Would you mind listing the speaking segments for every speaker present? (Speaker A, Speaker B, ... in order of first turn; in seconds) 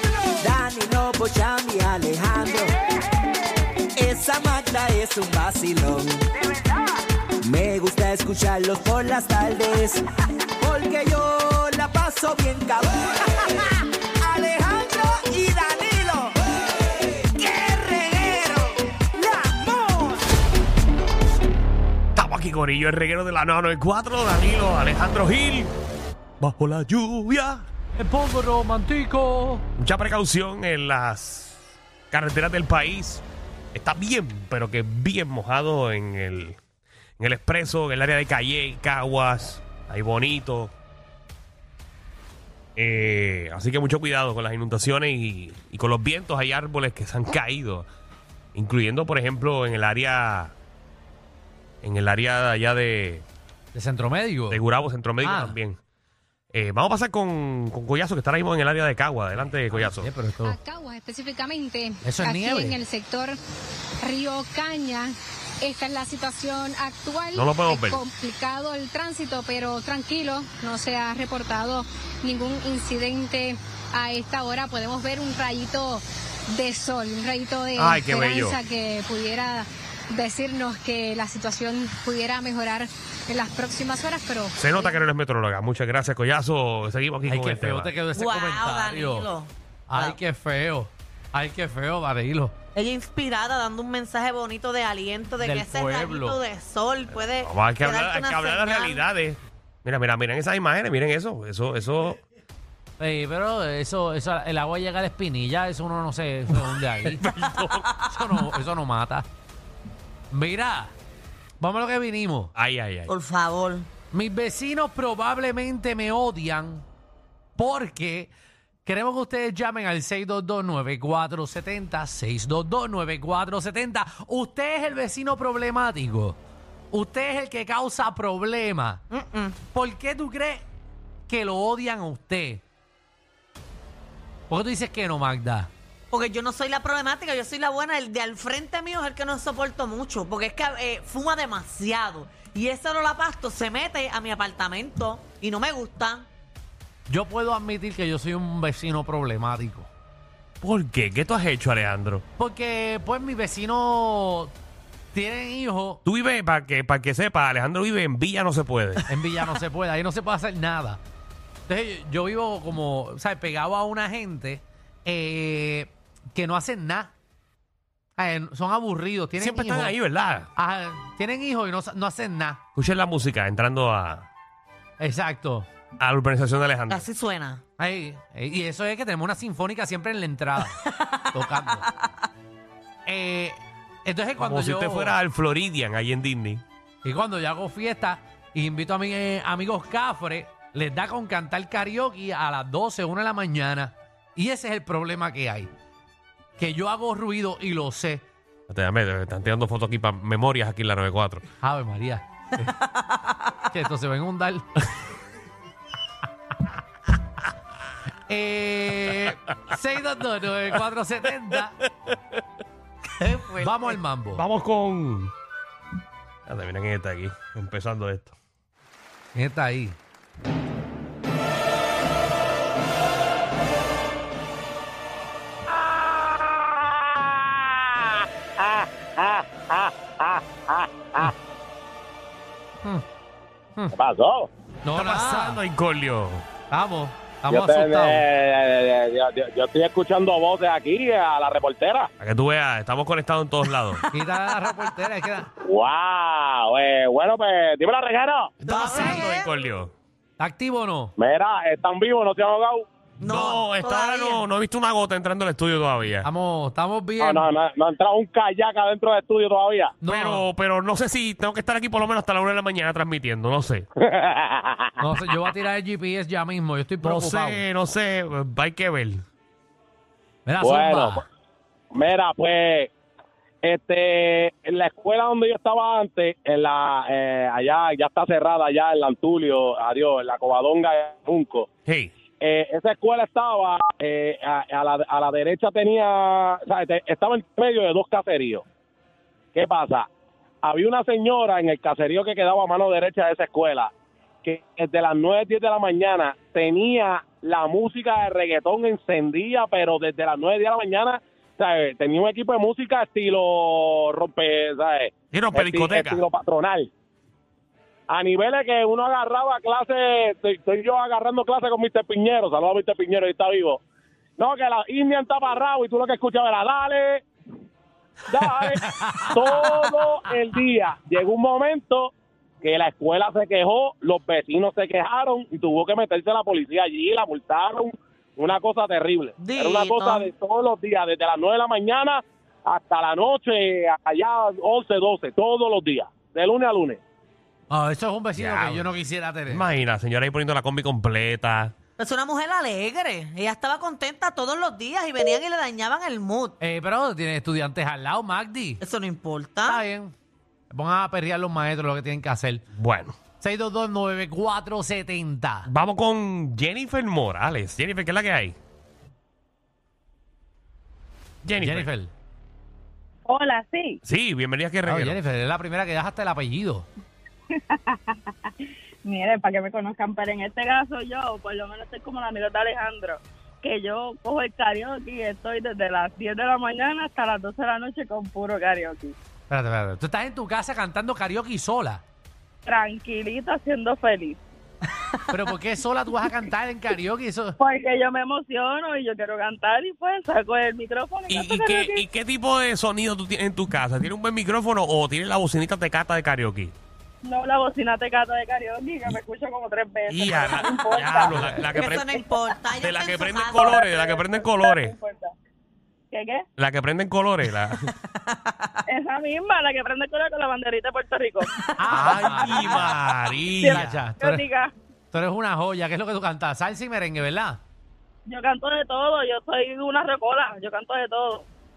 Speaker A: 0.4-2.7, 4.0-6.3, 7.4-10.1, 10.6-13.6, 14.2-16.4, 17.2-20.1
Speaker B: 22.1-25.7, 26.4-27.7, 29.8-31.6, 32.1-36.6, 37.2-40.7, 42.8-47.9, 48.5-50.5, 51.8-53.2, 54.5-55.8, 56.5-60.1, 67.3-68.0, 77.8-78.6, 84.6-88.0, 97.4-102.2, 107.1-107.9, 112.6-113.1, 150.6-152.2, 156.1-159.1, 169.4-170.5, 172.8-174.3, 176.0-177.1, 184.4-186.6, 198.7-201.4, 214.3-215.3, 216.5-218.3, 234.9-236.4, 242.2-244.0, 248.6-249.9, 253.3-256.3, 260.1-263.9, 267.0-269.2, 281.9-282.1, 305.3-306.2, 338.4-338.9, 339.5-341.8, 352.7-353.2, 355.7-358.6, 361.4-361.9, 364.1-365.2, 391.3-396.7, 400.1-402.2, 402.8-404.9, 406.6-407.9, 411.9-414.0
Speaker C: 28.0-29.6, 53.7-54.6, 55.2-55.6, 59.4-60.6, 62.0-62.8, 87.3-89.3, 89.9-92.6, 95.4-96.4, 103.0-107.2, 108.1-109.3, 110.3-110.9, 111.6-112.5, 114.1-116.8, 117.6-118.3, 118.8-126.4, 126.9-129.0, 129.7-130.7, 131.3-132.6, 134.5-135.7, 147.1-149.9, 152.4-154.5, 155.1-156.0, 159.1-161.0, 161.7-167.1, 168.2-169.9, 170.6-172.6, 175.0-175.7, 177.8-180.7, 181.3-181.8, 183.1-185.2, 187.0-195.7, 196.6-198.3, 201.6-202.7, 203.7-204.7, 208.3-211.8, 213.6-214.4, 219.3-220.0, 234.8-235.6, 236.7-238.2, 244.1-245.5, 250.4-251.1, 256.2-257.5, 260.0-260.5, 265.0-267.6, 270.5-271.2, 318.8-319.4, 337.7-339.7, 346.6-348.8, 349.7-350.1, 350.7-352.6, 353.4-355.7, 361.6-362.1, 364.9-366.9, 379.5-382.0, 385.3-387.6, 411.8-412.8, 413.7-414.5, 415.1-417.6
Speaker D: 60.4-63.4, 64.0-85.0
Speaker E: 88.1-90.2, 92.8-99.0, 107.8-108.3, 113.1-113.9, 129.1-129.6, 136.1-146.3, 176.9-177.6, 180.8-181.9, 213.2-213.9, 248.7-249.5, 253.2-254.4, 329.4-330.3, 342.0-346.6, 348.8-349.8, 401.7-403.7, 407.9-408.8
Speaker F: 225.7-231.3, 233.9-234.5, 237.5-242.1, 245.7-248.5, 251.2-252.9, 257.2-260.0, 264.1-264.9, 270.6-271.2, 271.9-272.9, 273.6-281.7, 282.4-288.6, 289.6-290.1, 290.6-293.9, 294.4-306.9, 308.1-313.8, 314.4-317.2, 318.3-337.0
Speaker G: 363.4-364.0, 369.0-379.1, 382.7-384.4, 387.6-392.0, 397.2-402.5, 403.6-405.3, 406.1-406.5, 408.9-411.5, 412.0-412.7, 413.6-414.7, 418.3-421.5